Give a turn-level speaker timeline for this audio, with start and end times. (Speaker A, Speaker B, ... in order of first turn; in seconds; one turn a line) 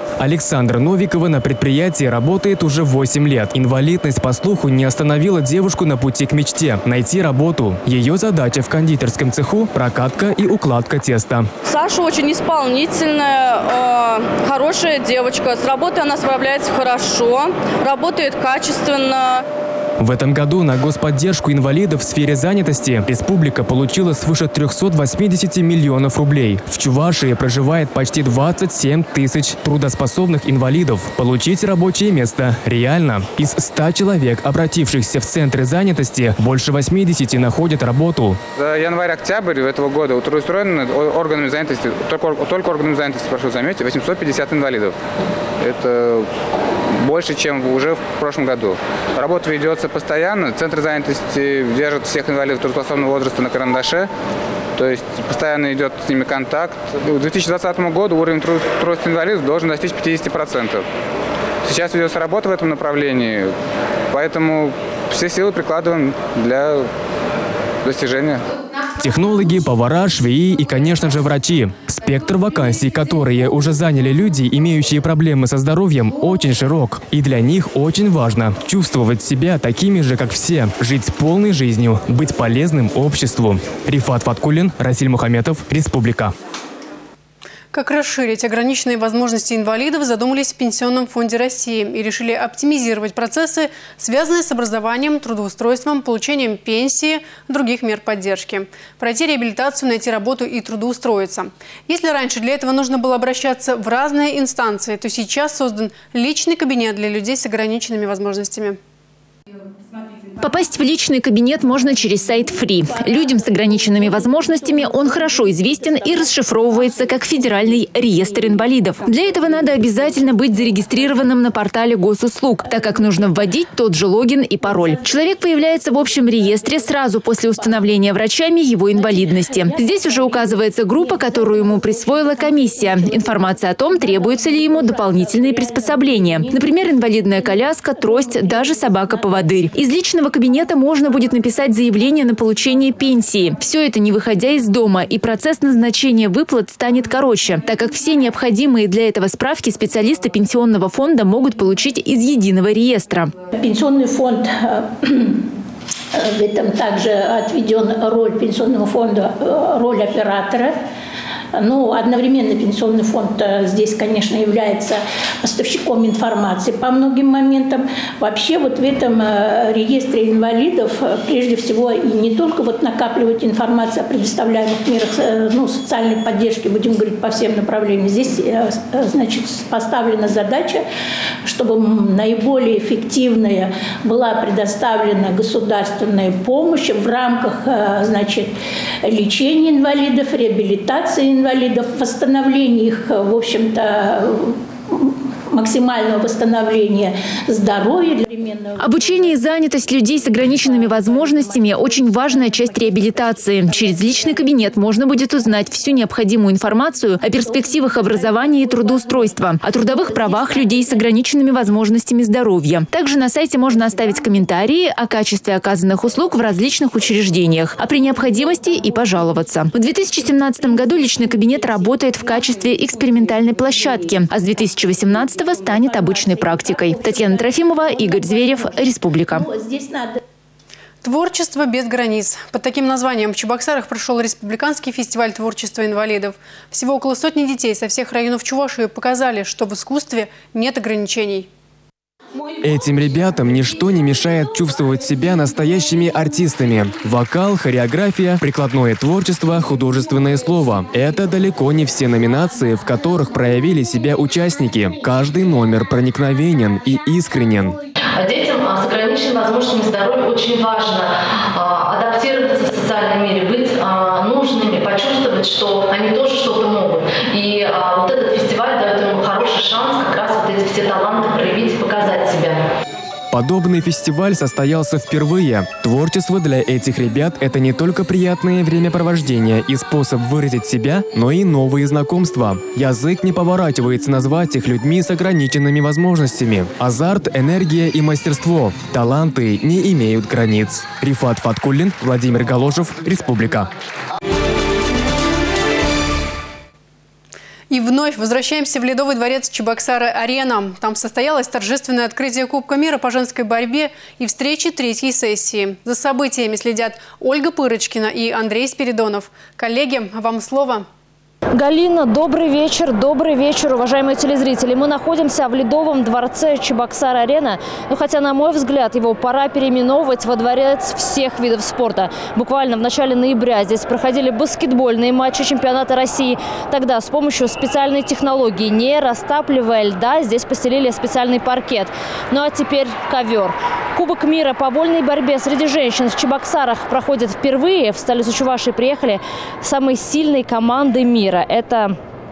Speaker A: 0.2-11.5
Speaker B: 11.7-19.4
Speaker A: 20.0-38.4
Speaker C: 38.6-45.0
Speaker C: 45.6-46.3
Speaker C: 47.0-54.1
Speaker C: 54.8-60.9
Speaker C: 61.6-63.5
Speaker C: 64.1-66.9
Speaker C: 67.8-68.4
Speaker A: 69.0-86.3
Speaker D: 87.7-108.8
Speaker E: 110.4-153.3
Speaker F: 113.2-115.5
Speaker F: 116.1-116.6
Speaker F: 122.9-123.3
Speaker F: 124.9-127.0
Speaker F: 128.9-139.5
Speaker F: 153.6-155.4
Speaker F: 156.1-160.8
Speaker F: 161.5-180.8
Speaker F: 181.4-188.5
Speaker F: 189.0-199.4
Speaker E: 198.8-229.5
Speaker F: 200.5-204.8
Speaker F: 207.4-208.9
Speaker F: 225.8-230.2
Speaker D: 231.0-241.5
Speaker A: 242.6-257.8
Speaker G: 258.1-272.6
Speaker A: 273.3-293.7
Speaker D: 297.7-310.9
Speaker H: 311.6-341.9